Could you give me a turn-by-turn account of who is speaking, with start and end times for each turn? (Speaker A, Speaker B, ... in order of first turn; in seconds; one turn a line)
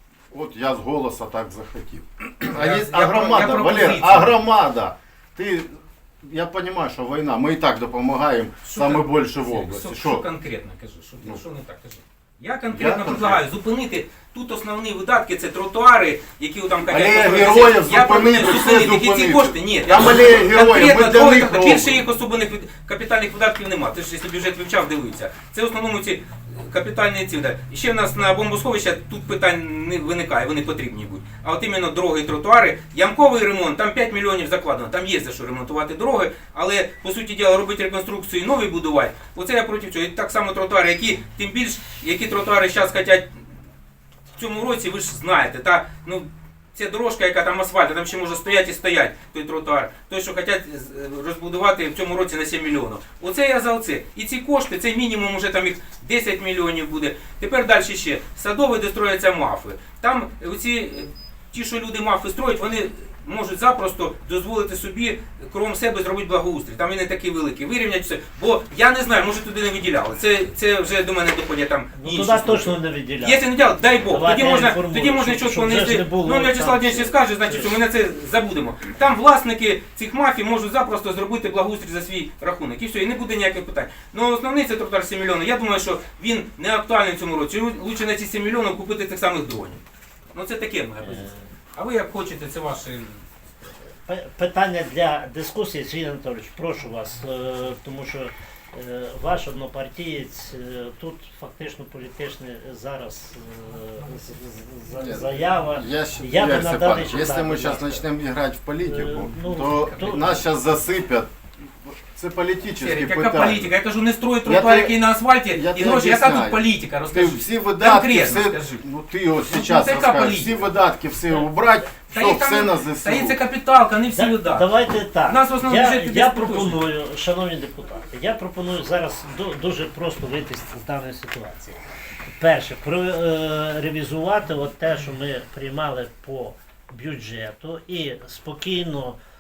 Speaker A: 0.3-10.2
Speaker B: 2.5-4.4
Speaker B: 8.6-43.4
Speaker A: 12.7-13.4
Speaker A: 16.9-21.9
Speaker B: 44.4-89.8
Speaker C: 72.0-73.4
Speaker C: 74.1-77.8
Speaker B: 90.3-93.2
Speaker C: 91.0-91.5
Speaker C: 94.1-108.0
Speaker A: 105.0-111.3
Speaker C: 108.8-110.5
Speaker A: 111.8-113.7
Speaker B: 112.8-118.8
Speaker A: 114.5-115.0
Speaker A: 115.5-123.4
Speaker B: 119.5-120.6
Speaker B: 122.1-124.7
Speaker C: 124.2-131.8
Speaker B: 125.3-126.8
Speaker C: 132.4-139.2